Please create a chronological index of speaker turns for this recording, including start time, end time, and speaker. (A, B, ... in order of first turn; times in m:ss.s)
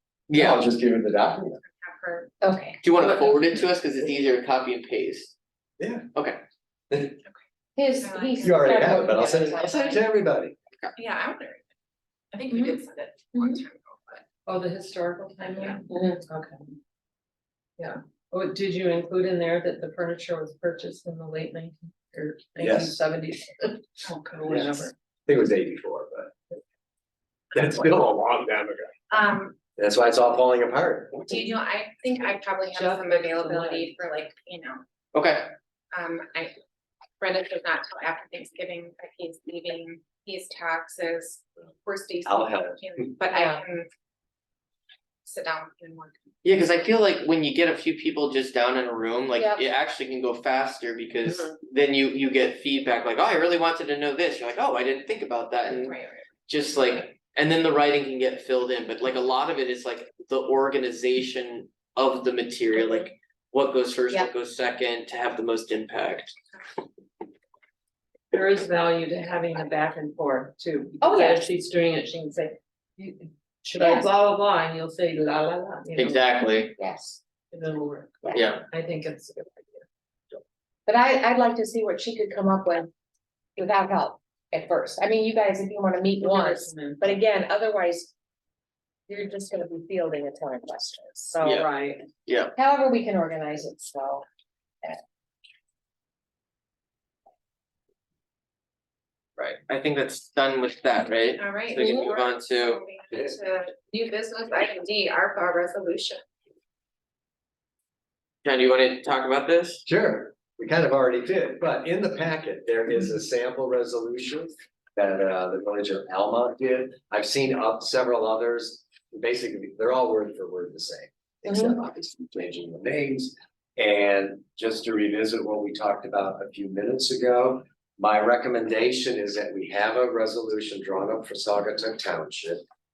0:00.3-0:00.6 A
0:00.3-0:01.6 B
0:01.6-0:02.4 C
0:02.4-0:02.8 D
0:02.8-0:05.3 A
0:03.0-0:03.4 E
0:05.8-0:06.1 B
0:06.1-0:06.4 A
0:06.9-0:07.2 B
0:07.8-0:10.0 D
0:08.0-0:10.0 C
0:08.4-0:10.6 B
0:11.0-0:11.7 C
0:12.3-0:14.2 C
0:14.4-0:16.8 E
0:17.8-0:24.9 E
0:22.6-0:23.0 B
0:24.5-0:26.3 B
0:27.5-0:29.1 B
0:29.1-0:29.6 C
0:29.8-0:31.4 B
0:31.2-0:34.8 C
0:32.7-0:33.9 E
0:35.1-0:35.5 A
0:35.9-0:36.5 C
0:37.2-0:43.9 C
0:42.2-0:42.8 B
0:43.3-0:43.6 D
0:45.2-0:46.2 C
0:46.4-0:56.0 A
0:49.4-0:49.6 D
0:55.8-0:56.2 C
0:56.5-1:06.3 A
1:08.3-1:16.2 E
1:11.0-1:11.4 D
1:13.8-1:14.1 D
1:16.0-1:16.7 A
1:16.8-1:17.2 D
1:17.5-1:20.4 E
1:18.3-1:18.6 A
1:20.9-1:22.9 D
1:23.6-1:28.1 D
1:26.2-1:27.2 E
1:29.1-1:31.7 D
1:31.4-1:32.1 E
1:32.2-1:32.5 A
1:32.6-1:34.2 D
1:39.4-1:42.8 A
1:41.4-1:46.2 C
1:48.4-1:49.8 A
1:49.8-2:12.6 B